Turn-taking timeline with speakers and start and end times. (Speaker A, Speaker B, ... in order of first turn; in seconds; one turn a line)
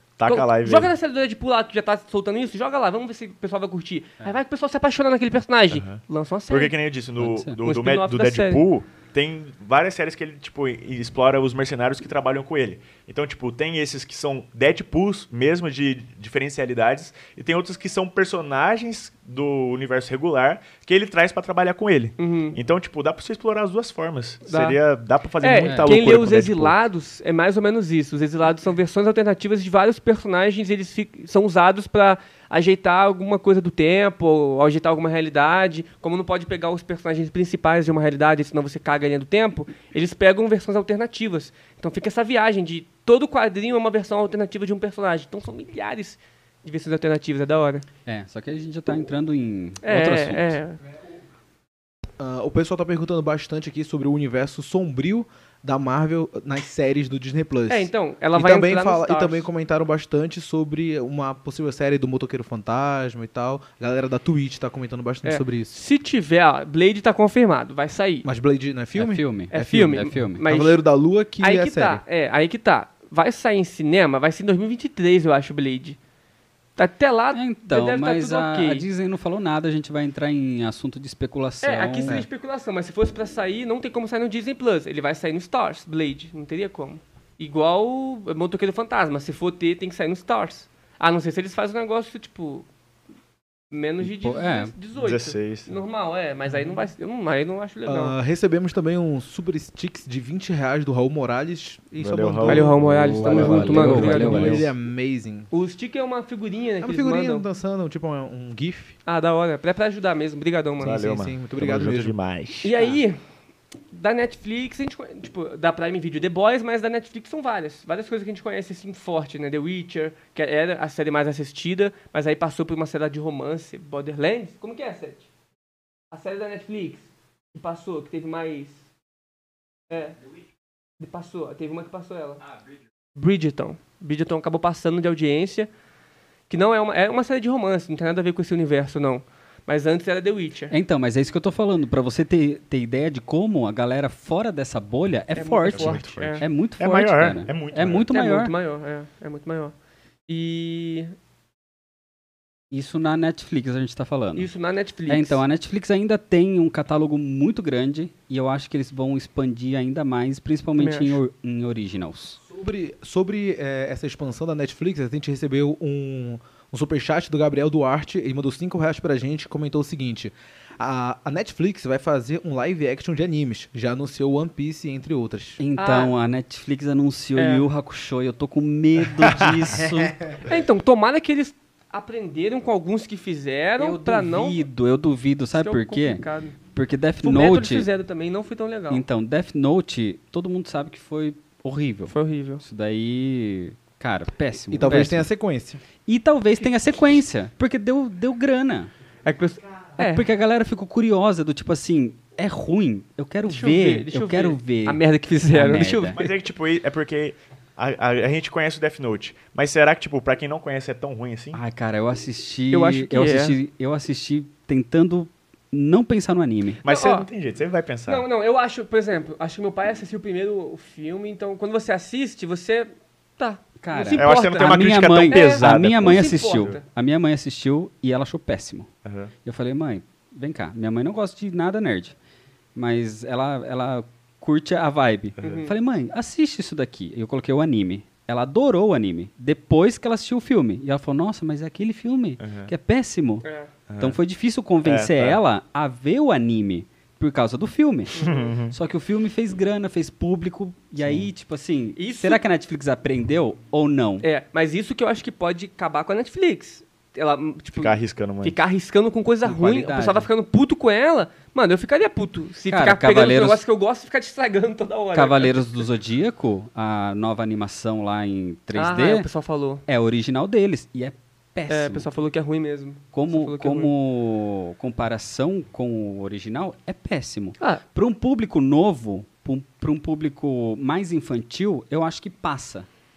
Speaker A: 0.2-0.9
Speaker B: 0.3-6.7
Speaker A: 5.7-26.8
Speaker C: 7.2-7.6
Speaker B: 7.6-8.6
Speaker B: 22.2-22.6
Speaker B: 24.5-24.8
Speaker B: 25.4-47.9
Speaker C: 25.6-26.2
Speaker C: 48.1-50.6
Speaker B: 49.8-50.8
Speaker D: 52.2-65.7
Speaker B: 57.7-59.5
Speaker B: 65.2-68.3
Speaker D: 68.2-72.0
Speaker C: 69.0-70.4
Speaker B: 69.5-70.8
Speaker B: 71.4-76.0
Speaker B: 76.8-78.9
Speaker C: 77.3-82.2
Speaker B: 81.6-92.7
Speaker B: 93.7-98.1
Speaker C: 94.0-94.7
Speaker A: 95.0-95.7
Speaker D: 97.9-102.8
Speaker A: 102.0-103.9
Speaker B: 102.5-104.7
Speaker C: 102.8-104.7
Speaker D: 103.3-105.5
Speaker B: 105.5-107.5
Speaker D: 106.8-109.0
Speaker B: 109.1-111.0
Speaker A: 110.8-112.8
Speaker D: 110.9-112.1
Speaker B: 112.6-113.2
Speaker B: 113.9-125.3
Speaker B: 126.1-128.8
Speaker B: 129.9-130.2
Speaker B: 131.0-132.5
Speaker B: 133.2-135.7
Speaker B: 136.5-140.8
Speaker C: 140.7-148.5
Speaker B: 145.3-146.4
Speaker A: 145.7-148.1
Speaker B: 148.1-149.7
Speaker B: 150.3-151.1
Speaker C: 152.7-154.5
Speaker B: 154.3-155.4
Speaker C: 155.1-162.4
Speaker B: 160.8-161.2
Speaker D: 162.5-175.6
Speaker C: 175.6-180.2
Speaker B: 175.8-176.1
Speaker B: 177.4-177.7
Speaker B: 180.4-184.6
Speaker C: 183.8-187.9
Speaker B: 185.6-186.6
Speaker B: 187.2-189.0
Speaker C: 188.9-195.3
Speaker B: 192.1-192.6
Speaker D: 194.7-195.8
Speaker C: 196.1-198.9
Speaker B: 199.3-200.2
Speaker C: 200.0-206.2
Speaker B: 203.5-206.3
Speaker A: 206.1-211.6
Speaker C: 211.5-216.8
Speaker B: 212.7-213.6
Speaker A: 216.8-218.2
Speaker B: 216.8-217.3
Speaker B: 218.1-226.8
Speaker C: 223.8-228.9
Speaker A: 224.1-226.8
Speaker A: 229.1-229.3
Speaker C: 229.4-232.2
Speaker C: 232.8-243.4
Speaker B: 235.4-235.7
Speaker A: 242.4-242.7
Speaker B: 243.4-243.7
Speaker A: 243.9-244.2
Speaker C: 244.0-254.3
Speaker A: 244.8-245.4
Speaker B: 248.2-248.5
Speaker A: 248.2-248.8
Speaker A: 251.0-251.3
Speaker B: 252.0-252.4
Speaker B: 254.2-265.8
Speaker A: 257.8-258.6
Speaker C: 259.4-260.3
Speaker C: 262.7-263.6
Speaker C: 265.1-269.3
Speaker B: 268.7-269.8
Speaker C: 269.9-272.1
Speaker B: 271.7-273.9
Speaker C: 273.1-282.9